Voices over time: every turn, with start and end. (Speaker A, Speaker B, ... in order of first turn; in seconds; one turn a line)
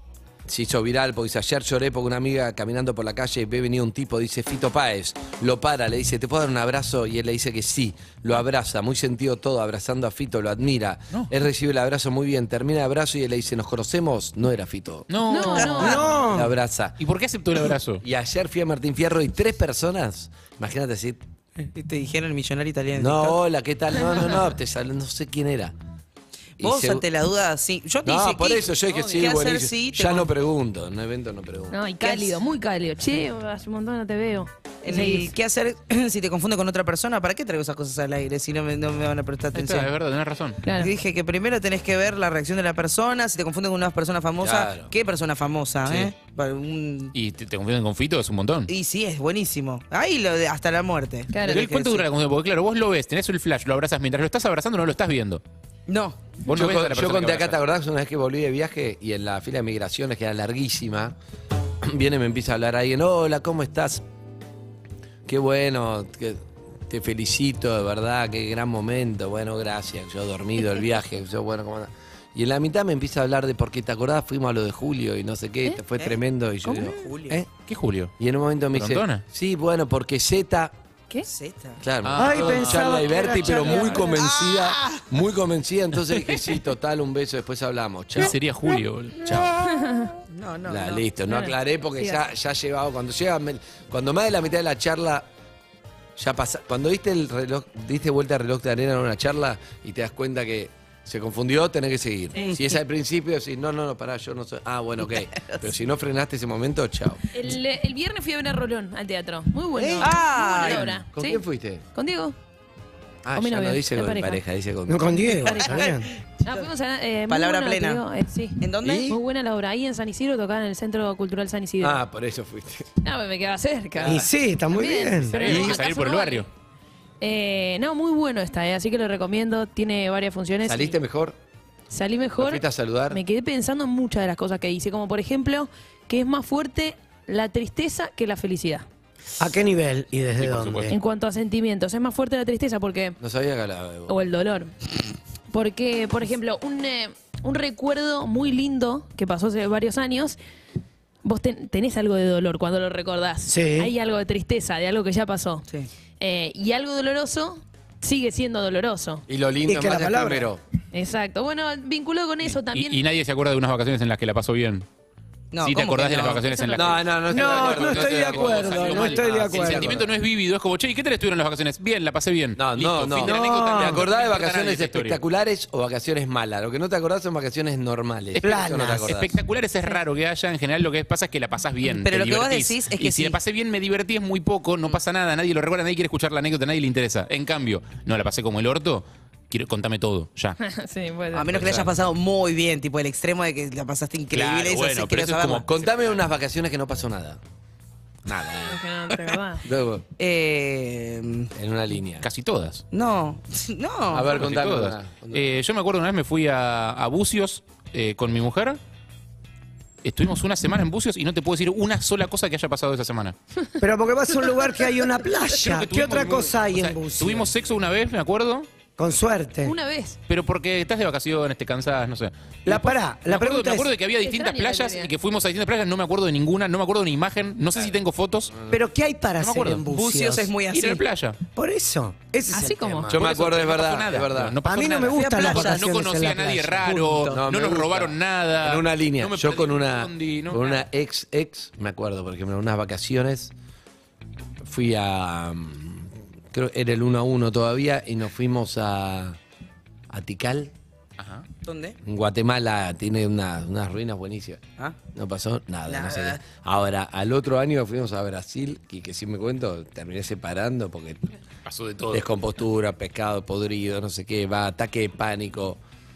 Speaker A: 0.4-15.1
Speaker B: 15.1-16.0
Speaker C: 15.3-16.1
Speaker D: 15.5-16.1
Speaker E: 15.8-16.5
Speaker A: 16.3-17.0
Speaker B: 17.0-18.0
Speaker A: 18.0-21.2
Speaker D: 21.6-23.4
Speaker A: 23.0-25.7
Speaker A: 26.6-27.0
Speaker D: 26.6-30.3
Speaker A: 28.0-31.8
Speaker C: 31.7-35.3
Speaker D: 32.0-32.4
Speaker D: 34.8-39.9
Speaker B: 39.5-40.6
Speaker C: 40.6-40.9
Speaker D: 40.7-47.1
Speaker A: 44.4-44.9
Speaker B: 47.1-48.7
Speaker D: 48.7-52.0
Speaker C: 51.3-51.6
Speaker B: 51.5-55.4
Speaker D: 55.9-56.4
Speaker B: 56.4-57.6
Speaker A: 56.5-61.1
Speaker A: 61.8-64.0
Speaker A: 65.2-77.5
Speaker D: 76.7-77.4
Speaker B: 77.6-78.1
Speaker A: 78.2-80.7
Speaker B: 78.7-79.2
Speaker D: 81.2-81.8
Speaker A: 81.8-88.3
Speaker B: 82.0-84.0
Speaker E: 82.2-84.2
Speaker D: 83.4-85.0
Speaker B: 88.2-89.5
Speaker A: 89.2-89.5
Speaker C: 89.7-90.1
Speaker D: 90.3-91.0
Speaker A: 90.7-95.3
Speaker C: 91.3-92.2
Speaker A: 96.2-107.2
Speaker C: 102.3-102.6
Speaker D: 105.3-105.6
Speaker C: 107.3-111.4
Speaker A: 109.8-111.8
Speaker D: 110.0-111.0
Speaker C: 111.9-112.3
Speaker A: 113.2-115.5
Speaker C: 113.3-114.4
Speaker E: 114.9-116.1
Speaker C: 115.4-115.9
Speaker C: 116.4-122.0
Speaker D: 117.3-118.0
Speaker D: 118.6-119.1
Speaker A: 118.8-119.2
Speaker A: 121.8-122.9
Speaker C: 123.0-126.5
Speaker A: 124.0-124.3
Speaker E: 124.0-125.4
Speaker B: 125.3-126.5
Speaker A: 125.4-125.8
Speaker C: 127.2-130.9
Speaker A: 130.6-131.4
Speaker C: 131.9-138.8
Speaker A: 132.4-133.2
Speaker E: 139.4-140.9
Speaker A: 140.4-140.9
Speaker C: 140.9-143.2
Speaker A: 143.2-144.1
Speaker C: 144.1-144.7
Speaker C: 145.5-150.4
Speaker C: 151.2-155.6
Speaker E: 153.5-153.9
Speaker C: 156.2-159.2
Speaker A: 159.3-160.6
Speaker E: 159.7-160.5
Speaker C: 160.9-163.0
Speaker B: 162.7-164.8
Speaker D: 165.5-166.4
Speaker B: 165.6-175.2
Speaker C: 166.5-166.9
Speaker A: 166.7-170.0
Speaker E: 167.3-170.1
Speaker A: 172.6-179.3
Speaker E: 173.2-174.0
Speaker B: 178.4-190.6
Speaker E: 178.4-179.1
Speaker D: 181.9-183.4
Speaker C: 190.6-191.5
Speaker D: 191.3-195.6
Speaker A: 191.5-191.9
Speaker B: 194.3-196.0
Speaker A: 195.6-197.4
Speaker A: 198.2-198.8
Speaker C: 198.6-199.6
Speaker A: 199.6-200.1
Speaker D: 200.2-201.5
Speaker A: 201.5-202.3
Speaker B: 202.2-202.8
Speaker D: 202.9-204.3
Speaker A: 204.1-205.4
Speaker B: 204.3-208.8
Speaker B: 210.0-213.3
Speaker E: 213.8-217.5
Speaker B: 215.5-218.7
Speaker E: 219.0-219.7
Speaker C: 219.6-220.2
Speaker B: 220.3-228.5
Speaker E: 222.7-223.9
Speaker C: 224.2-225.1
Speaker E: 228.7-230.5
Speaker B: 229.4-229.8
Speaker D: 229.9-231.0
Speaker B: 230.7-231.4
Speaker E: 231.6-233.3
Speaker C: 232.5-233.1
Speaker A: 233.1-234.6
Speaker B: 233.1-240.8
Speaker E: 234.6-237.4
Speaker D: 235.1-235.9
Speaker A: 237.3-243.5
Speaker A: 244.6-249.4
Speaker A: 250.1-250.7
Speaker B: 251.2-251.4
Speaker D: 251.6-251.9
Speaker A: 252.0-254.6
Speaker A: 255.1-261.2
Speaker D: 255.9-256.4
Speaker B: 261.6-262.3
Speaker A: 262.1-265.8